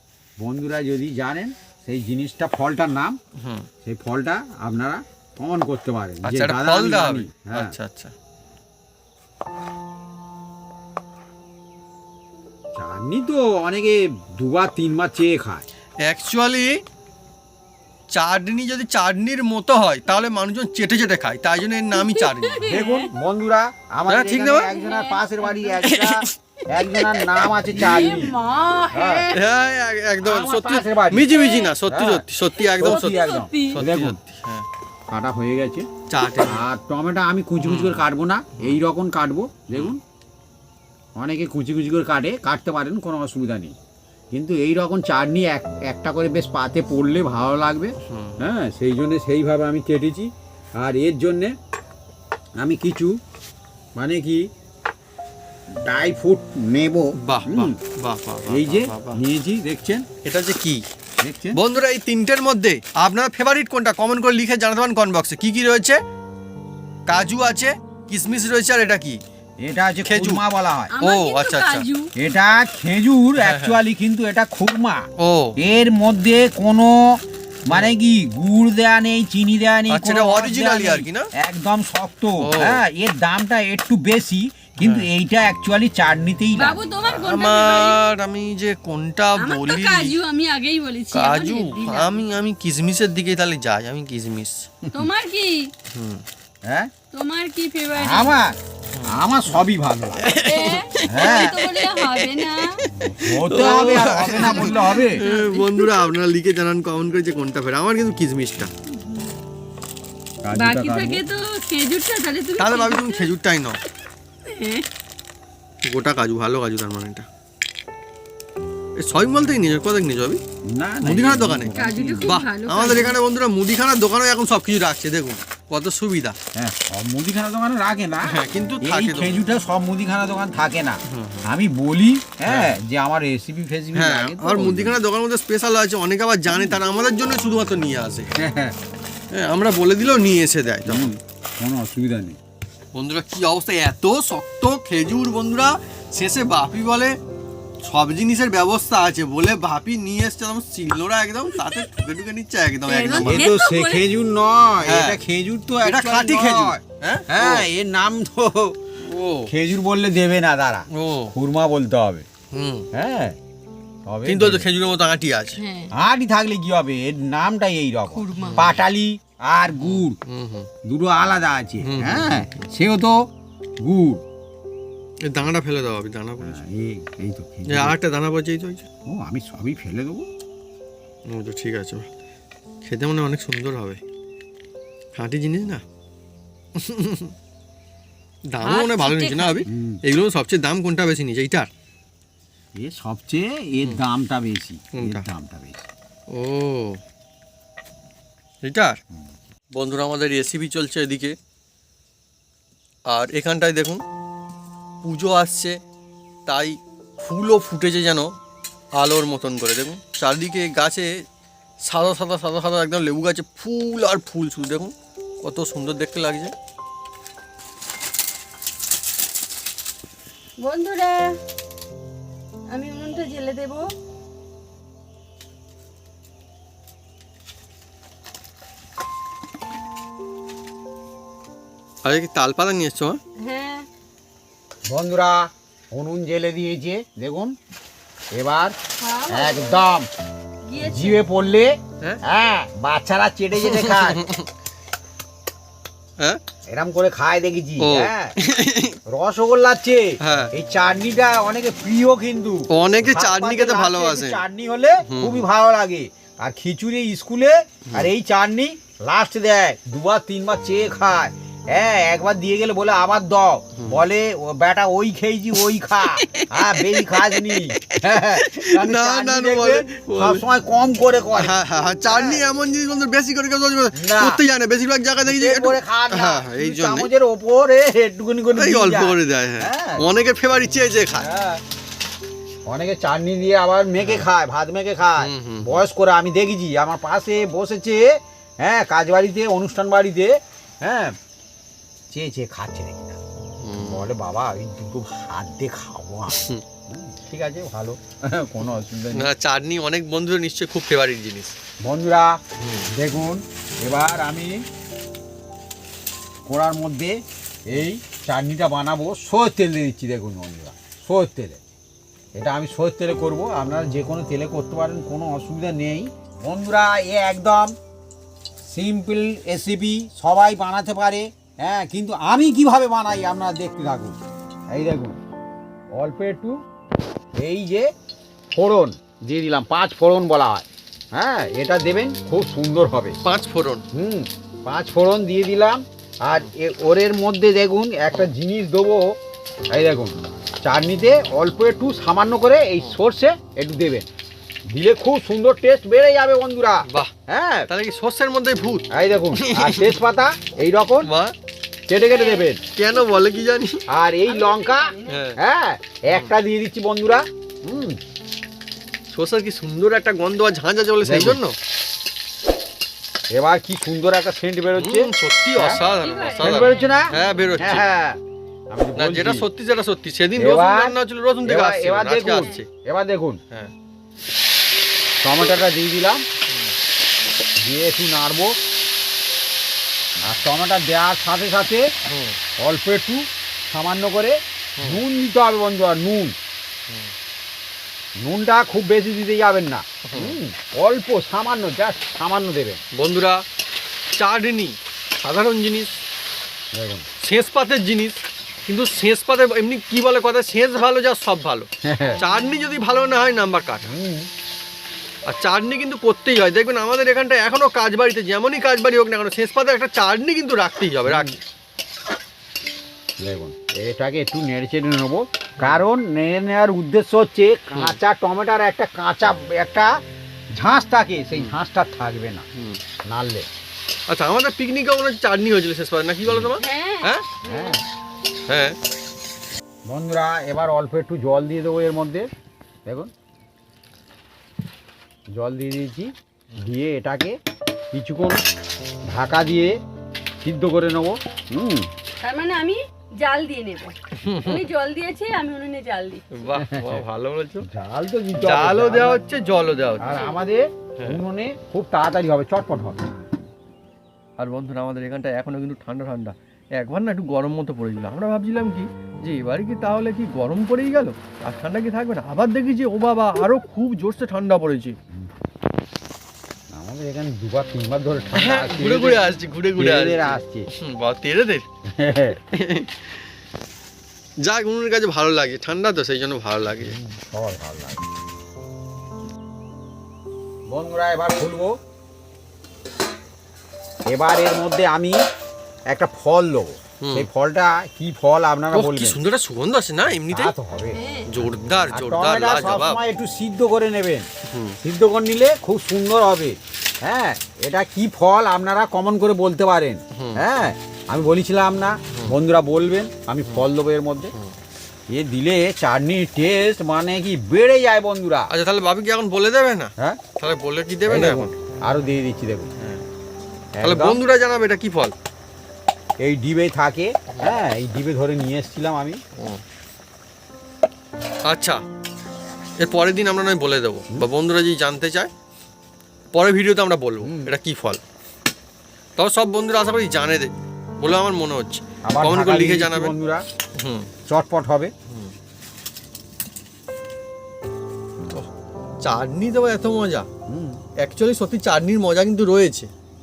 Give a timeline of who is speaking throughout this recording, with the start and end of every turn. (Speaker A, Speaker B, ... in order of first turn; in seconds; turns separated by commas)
Speaker A: 0.4-3.2, Speaker B: 3.4-3.7, Speaker A: 3.8-7.7, Speaker B: 6.2-8.1, Speaker A: 12.7-15.6, Speaker B: 16.0-16.8, Speaker B: 18.1-22.6, Speaker C: 21.9-23.1, Speaker A: 22.7-28.3, Speaker B: 24.1-24.7, Speaker C: 24.7-25.7, Speaker B: 25.8-26.3, Speaker C: 27.7-29.4, Speaker A: 28.9-29.2, Speaker B: 29.3-33.2, Speaker A: 30.2-31.3, Speaker C: 31.3-31.7, Speaker A: 31.9-32.2, Speaker C: 32.6-33.8, Speaker A: 32.8-34.2, Speaker B: 33.7-34.6, Speaker A: 35.1-35.9, Speaker B: 36.1-36.6, Speaker A: 36.5-40.0, Speaker B: 37.6-38.0, Speaker B: 39.7-40.0, Speaker A: 41.1-43.8, Speaker A: 44.3-51.5, Speaker B: 48.0-48.4, Speaker A: 52.6-53.1, Speaker A: 54.0-54.5, Speaker A: 55.8-57.7, Speaker B: 57.2-59.2, Speaker A: 58.5-60.0, Speaker B: 60.2-60.8, Speaker A: 61.2-61.6, Speaker B: 61.5-66.0, Speaker B: 67.1-69.2, Speaker A: 69.6-70.9, Speaker B: 70.0-70.4, Speaker C: 70.9-72.1, Speaker B: 71.0-71.8, Speaker A: 72.2-75.0, Speaker B: 73.4-73.8, Speaker B: 75.2-75.6, Speaker A: 75.6-86.8, Speaker B: 79.9-81.3, Speaker B: 82.4-82.8, Speaker B: 84.8-85.1, Speaker C: 86.5-88.0, Speaker B: 87.2-90.1, Speaker C: 89.4-92.2, Speaker B: 91.1-94.7, Speaker C: 94.9-95.7, Speaker B: 95.9-96.2, Speaker A: 96.7-96.9, Speaker C: 97.1-98.3, Speaker A: 97.9-100.3, Speaker B: 98.9-99.2, Speaker B: 100.2-108.7, Speaker C: 100.4-102.8, Speaker A: 101.1-101.6, Speaker A: 102.9-105.2, Speaker C: 103.6-106.1, Speaker A: 110.4-111.2, Speaker C: 110.5-113.3, Speaker B: 112.6-113.8, Speaker C: 114.4-114.8, Speaker B: 115.9-117.2, Speaker B: 119.0-120.4, Speaker A: 120.7-122.4, Speaker B: 121.0-126.3, Speaker C: 121.7-123.1, Speaker A: 126.5-135.0, Speaker B: 128.2-129.4, Speaker B: 131.1-131.5, Speaker B: 132.4-132.8, Speaker B: 133.9-138.3, Speaker A: 136.5-136.8, Speaker A: 138.4-138.8, Speaker B: 139.3-141.1, Speaker A: 140.8-142.4, Speaker B: 142.9-147.1, Speaker B: 147.8-153.5, Speaker C: 152.9-154.1, Speaker A: 153.1-158.8, Speaker B: 154.8-155.2, Speaker B: 155.8-157.7, Speaker B: 159.0-159.5, Speaker A: 159.5-162.2, Speaker B: 160.9-161.3, Speaker B: 162.5-162.8, Speaker A: 162.9-163.3, Speaker A: 164.1-164.7, Speaker B: 164.2-165.6, Speaker C: 165.6-165.9, Speaker A: 165.9-170.2, Speaker C: 168.1-168.6, Speaker B: 168.4-168.8, Speaker B: 169.7-170.7, Speaker A: 170.8-173.3, Speaker B: 171.8-172.7, Speaker A: 173.8-174.2, Speaker B: 175.2-176.6, Speaker A: 176.4-178.0, Speaker B: 177.7-178.9, Speaker A: 179.1-180.3, Speaker B: 181.3-182.1, Speaker B: 182.8-184.0, Speaker B: 185.2-185.8, Speaker B: 186.7-187.3, Speaker B: 188.5-191.7, Speaker C: 188.6-189.7, Speaker A: 189.7-190.0, Speaker A: 192.8-195.9, Speaker B: 194.9-195.2, Speaker B: 196.3-197.0, Speaker B: 198.6-199.0, Speaker B: 199.7-201.3, Speaker B: 203.1-204.0, Speaker B: 205.0-205.8, Speaker B: 206.4-208.3, Speaker B: 208.9-211.2, Speaker B: 211.8-216.5, Speaker C: 220.6-221.4, Speaker C: 222.7-223.9, Speaker B: 232.0-233.2, Speaker C: 233.4-233.9, Speaker A: 234.9-237.6, Speaker A: 238.3-238.8, Speaker C: 239.0-239.8, Speaker A: 239.3-240.1, Speaker C: 240.7-241.2, Speaker A: 240.8-244.2, Speaker B: 243.6-244.5, Speaker A: 246.7-248.3, Speaker B: 247.8-249.0, Speaker A: 249.1-272.4, Speaker B: 250.2-250.5, Speaker B: 252.7-254.4, Speaker B: 255.1-255.4, Speaker B: 263.8-264.0, Speaker B: 266.4-266.8, Speaker B: 267.9-270.4, Speaker B: 271.3-277.1, Speaker A: 273.9-274.4, Speaker A: 275.2-280.0, Speaker B: 278.5-281.3, Speaker A: 281.1-281.6, Speaker A: 282.6-291.1, Speaker B: 284.0-284.3, Speaker B: 285.2-285.8, Speaker A: 292.1-293.2, Speaker B: 293.6-294.1, Speaker A: 293.8-299.3, Speaker B: 296.3-296.6, Speaker B: 299.1-301.6, Speaker A: 301.8-302.4, Speaker B: 302.6-302.9, Speaker A: 302.9-304.6, Speaker A: 306.4-311.6, Speaker A: 312.4-317.7, Speaker A: 318.6-324.2, Speaker A: 324.7-325.2, Speaker A: 325.9-326.6, Speaker A: 327.4-327.9, Speaker A: 328.5-333.1, Speaker B: 333.2-333.8, Speaker A: 333.9-339.2, Speaker A: 339.7-344.1, Speaker A: 344.7-347.7, Speaker B: 346.9-347.1, Speaker B: 347.7-350.0, Speaker A: 348.9-351.1, Speaker B: 351.0-351.3, Speaker A: 351.9-352.6, Speaker C: 352.1-352.5, Speaker B: 352.7-353.8, Speaker A: 353.9-358.0, Speaker C: 354.3-355.2, Speaker B: 355.1-355.4, Speaker B: 359.1-361.6, Speaker A: 361.0-361.4, Speaker A: 363.3-365.8, Speaker B: 364.8-367.9, Speaker C: 365.7-367.4, Speaker A: 366.4-369.4, Speaker B: 368.9-372.7, Speaker A: 370.4-373.4, Speaker C: 372.3-372.6, Speaker A: 375.2-376.2, Speaker A: 377.6-378.6, Speaker A: 380.2-381.9, Speaker B: 382.1-382.4, Speaker A: 382.6-386.4, Speaker B: 384.8-385.0, Speaker A: 388.2-392.8, Speaker B: 390.1-390.4, Speaker B: 392.9-393.4, Speaker B: 394.2-396.0, Speaker A: 396.7-397.0, Speaker B: 397.2-403.9, Speaker A: 401.8-402.2, Speaker A: 403.8-404.3, Speaker B: 405.2-411.4, Speaker A: 411.1-411.3, Speaker A: 413.2-419.9, Speaker A: 420.5-422.4, Speaker A: 423.1-423.5, Speaker B: 424.1-427.2, Speaker C: 426.5-427.8, Speaker A: 427.4-427.8, Speaker B: 428.5-428.8, Speaker A: 429.9-432.3, Speaker A: 432.9-433.1, Speaker A: 435.3-437.4, Speaker A: 437.9-438.4, Speaker A: 439.1-439.7, Speaker A: 440.4-441.9, Speaker C: 442.2-446.2, Speaker B: 444.2-444.6, Speaker B: 446.3-447.7, Speaker A: 446.6-447.0, Speaker A: 447.6-449.2, Speaker B: 448.4-450.2, Speaker A: 450.0-453.2, Speaker C: 450.1-450.4, Speaker B: 454.4-465.0, Speaker A: 466.7-470.7, Speaker B: 468.3-471.6, Speaker A: 471.9-472.4, Speaker B: 472.4-473.1, Speaker B: 474.4-477.0, Speaker A: 476.8-478.0, Speaker A: 480.7-481.8, Speaker A: 484.1-485.2, Speaker A: 485.9-489.2, Speaker B: 487.0-487.3, Speaker B: 488.7-490.5, Speaker A: 490.3-491.0, Speaker C: 490.9-491.3, Speaker B: 491.3-493.0, Speaker A: 491.9-494.3, Speaker B: 494.5-494.8, Speaker A: 494.8-504.3, Speaker B: 500.1-500.4, Speaker A: 505.1-508.5, Speaker B: 508.5-511.5, Speaker A: 511.1-512.7, Speaker B: 512.8-513.0, Speaker A: 513.8-514.2, Speaker B: 513.8-515.1, Speaker A: 516.2-519.2, Speaker B: 521.5-521.8, Speaker B: 522.8-525.3, Speaker B: 526.3-528.0, Speaker A: 527.2-527.5, Speaker B: 529.2-533.1, Speaker A: 532.0-533.4, Speaker B: 533.8-534.1, Speaker A: 534.2-534.9, Speaker B: 539.0-540.2, Speaker A: 540.5-540.8, Speaker B: 541.0-542.9